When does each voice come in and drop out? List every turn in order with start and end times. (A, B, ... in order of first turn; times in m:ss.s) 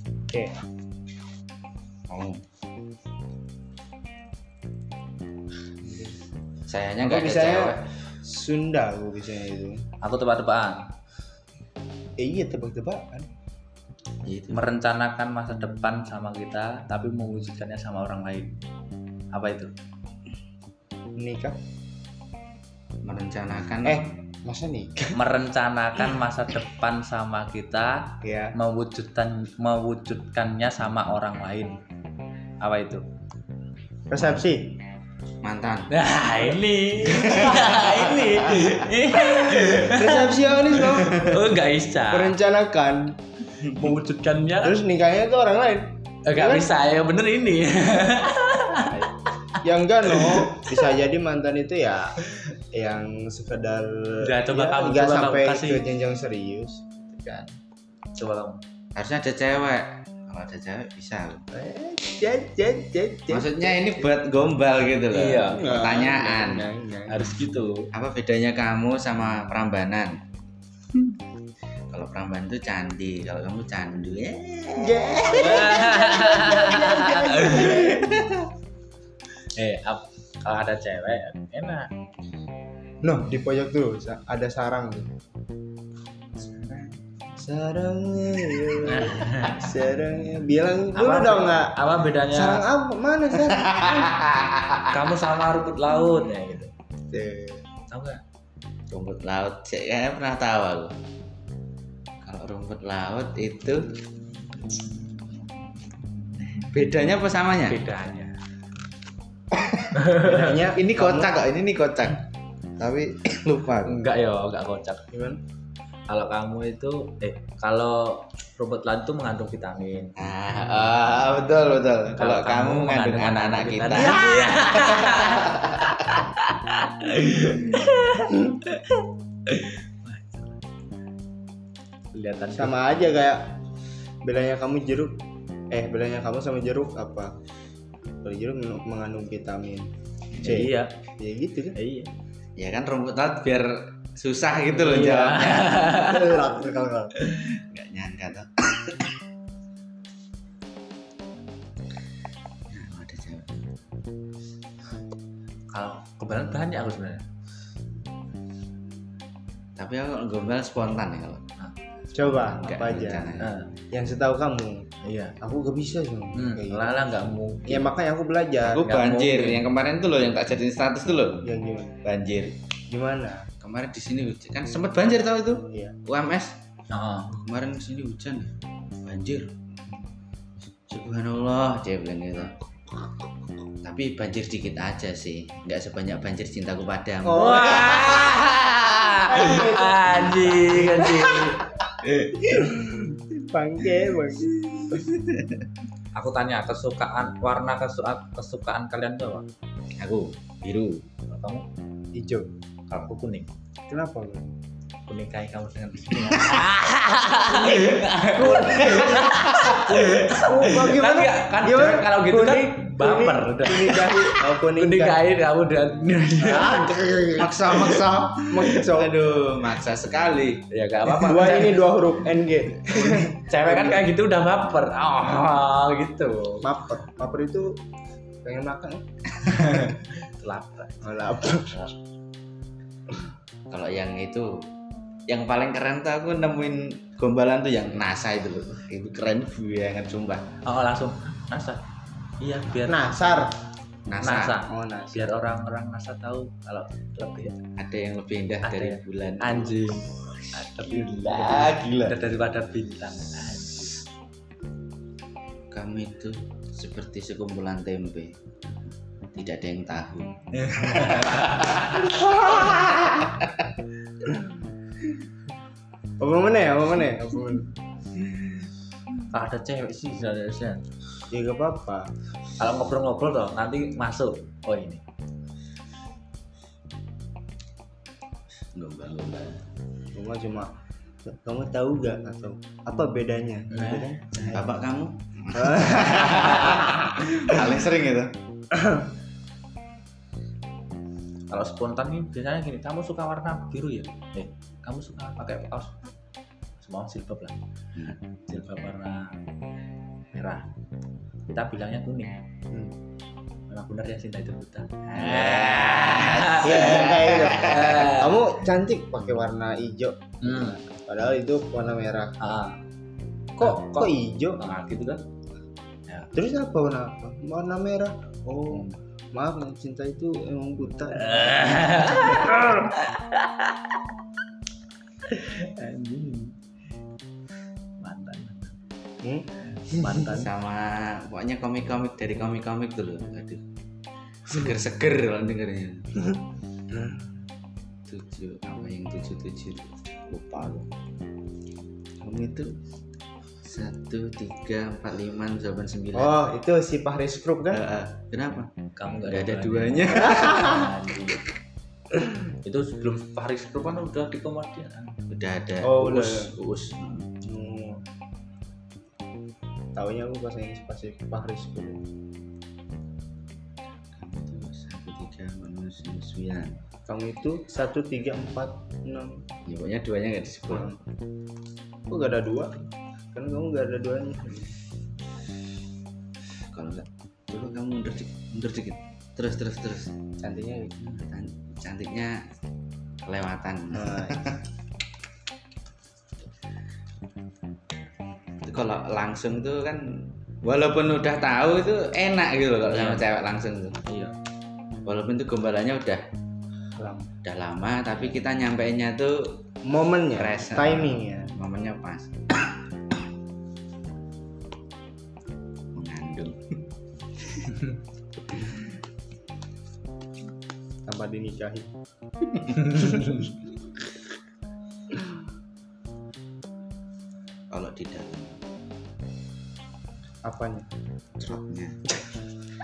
0:02.1-0:02.4 A
0:05.8-0:06.2 B
0:06.7-0:07.8 A
0:07.0-0:09.8 B
0:10.0-0:10.8 C
0:12.2-0:13.3 B
0:14.2-0:14.6 A
0:14.5-0:18.5 C
0:19.3-0:19.7 C
0:21.2-0:21.6 B
0:23.0-0:24.1 A
0:23.8-0:25.2 B
0:25.1-0:31.8 C
0:28.2-0:28.5 B
0:32.6-0:33.0 C
0:34.1-0:34.8 B
0:35.4-0:35.9 A
0:35.9-0:42.3 C
0:37.0-0:38.7 A
0:39.4-0:41.4 B
0:42.1-0:43.1 B
0:43.6-0:44.8 C
0:44.6-0:46.7 B
0:46.2-0:49.3 C
0:49.6-0:57.5 B
0:50.1-0:50.7 C
0:54.2-0:55.8 C
0:58.1-0:58.6 C
0:58.9-1:01.4 A
1:01.5-1:04.0 B
1:03.3-1:06.7 A
1:05.1-1:05.7 C
1:05.4-1:07.2 B
1:07.1-1:07.9 C
1:07.9-1:10.2 A
1:11.9-1:15.6 A
1:14.7-1:18.2 B
1:15.3-1:18.0 C
1:17.5-1:18.5 A
1:19.5-1:21.9 C
1:23.0-1:25.1 B
1:26.4-1:26.9 A
1:27.4-1:31.8 B
1:28.8-1:29.6 C
1:30.9-1:32.6 C
1:32.3-1:34.1 B
1:33.6-1:35.1 A
1:34.9-1:36.7 C
1:37.1-1:37.6 B
1:37.9-1:38.2 C
1:38.9-1:41.0 A
1:42.2-1:44.0 A
1:46.5-1:47.8 A
1:47.7-1:48.3 C
1:49.6-1:49.8 A
1:49.9-1:50.6 C
1:50.1-1:51.5 B
1:50.7-1:52.2 A
1:52.8-1:54.0 A
1:53.8-1:55.0 C
1:55.1-1:55.4 B
1:56.1-2:00.1 C
2:00.2-2:06.2 A
2:02.2-2:10.6 C
2:12.1-2:12.7 C
2:12.5-2:13.5 B
2:14.2-2:15.1 B
2:15.7-2:17.3 B
2:18.2-2:19.9 B
2:20.4-2:21.8 B
2:20.4-2:20.9 C
2:21.7-2:22.1 C
2:22.6-2:25.9 A
2:24.7-2:26.4 C
2:24.9-2:25.2 B
2:25.9-2:27.1 B
2:27.3-2:29.1 A
2:32.7-2:33.6 A
2:35.7-2:37.2 C
2:39.8-2:41.4 A
2:42.1-2:43.4 B
2:42.2-2:43.6 A
2:43.4-2:43.8 C
2:43.9-2:44.9 B
2:45.0-2:45.4 C
2:45.4-2:47.0 B
2:46.3-2:47.9 C
2:47.7-2:48.8 B
2:48.6-2:51.5 A
2:48.8-2:49.6 C
2:51.4-2:52.0 B
2:52.0-2:52.6 A
2:52.9-2:53.5 B
2:53.6-2:56.6 A
2:55.6-2:56.0 B
2:56.9-2:57.4 C
2:57.3-2:59.5 A
3:00.9-3:02.6 A
3:03.8-3:09.1 A
3:07.2-3:08.0 B
3:07.3-3:11.7 C
3:09.3-3:11.1 B
3:10.7-3:11.4 A
3:12.0-3:12.4 A
3:12.4-3:15.1 B
3:15.0-3:15.4 A
3:16.1-3:19.5 C
3:20.0-3:21.0 A
3:21.3-3:21.6 C
3:22.1-3:22.5 B
3:22.9-3:23.5 C
3:23.9-3:24.5 B
3:25.1-3:36.9 C
3:28.3-3:35.2 B
3:28.7-3:29.8 A
3:36.4-3:39.2 B
3:37.4-3:40.6 A
3:40.7-3:41.8 C
3:41.2-3:44.0 B
3:43.3-3:46.7 C
3:46.6-3:47.8 B
3:48.4-3:49.0 B
3:49.7-3:51.1 C
3:51.0-3:51.9 B
3:53.7-3:54.7 A
3:55.3-4:00.5 A
4:00.6-4:01.8 C
4:02.4-4:03.0 C
4:02.8-4:03.5 B
4:04.1-4:04.6 A
4:04.2-4:07.6 C
4:04.6-4:05.2 B
4:07.8-4:09.9 A
4:08.6-4:14.0 C
4:10.8-4:12.2 A
4:15.7-4:18.3 A
4:19.3-4:23.4 A
4:20.6-4:22.1 C
4:22.1-4:22.5 B
4:26.2-4:27.7 B
4:29.3-4:30.8 C
4:31.3-4:32.1 B
4:32.6-4:35.0 C
4:38.7-4:39.7 A
4:40.1-4:40.7 B
4:41.2-4:44.6 B
4:43.7-4:44.7 C
4:44.5-4:48.3 A
4:45.5-4:47.7 B
4:48.7-4:49.1 B
4:51.5-4:55.9 C
4:56.8-4:57.6 C
4:58.0-4:58.2 A
4:58.5-4:59.3 C
5:00.3-5:00.6 C
5:01.5-5:02.4 C
5:02.7-5:03.0 B
5:03.7-5:08.4 C
5:05.1-5:08.1 A
5:06.6-5:12.3 B
5:10.4-5:10.8 C
5:12.4-5:12.8 C
5:13.6-5:14.6 B
5:13.6-5:15.2 C
5:16.3-5:22.6 B
5:21.1-5:24.0 C
5:25.3-5:26.6 C
5:28.0-5:28.8 C
5:29.2-5:29.5 B
5:29.6-5:30.5 C
5:30.2-5:33.6 A
5:34.5-5:36.1 A
5:38.1-5:40.9 A
5:42.2-5:42.7 A
5:43.6-5:46.4 A
5:46.1-5:47.8 B
5:47.7-5:48.7 A
5:49.0-5:51.4 C
5:49.3-5:50.8 A
5:50.4-5:50.8 B
5:52.6-5:55.2 C
5:55.3-5:57.3 A
5:55.8-5:56.5 B
5:57.4-5:58.0 B
5:59.9-6:02.0 B
6:04.1-6:06.8 A
6:07.0-6:09.4 B
6:09.6-6:10.9 A
6:10.7-6:11.0 B
6:12.1-6:12.7 B
6:13.3-6:14.8 B
6:16.7-6:20.1 A
6:20.4-6:21.1 B
6:21.0-6:22.4 A
6:23.2-6:24.6 A
6:23.9-6:24.5 B
6:28.6-6:34.0 A
6:32.9-6:33.2 C
6:34.0-6:34.3 C
6:35.0-6:36.2 A
6:37.0-6:37.3 B
6:37.4-6:39.5 A
6:39.8-6:41.5 B
6:40.4-6:42.7 A
6:45.9-6:46.6 A
6:51.0-6:51.9 B
6:52.5-6:53.0 A
6:57.7-6:58.6 A
7:00.4-7:00.9 B
7:01.4-7:02.0 A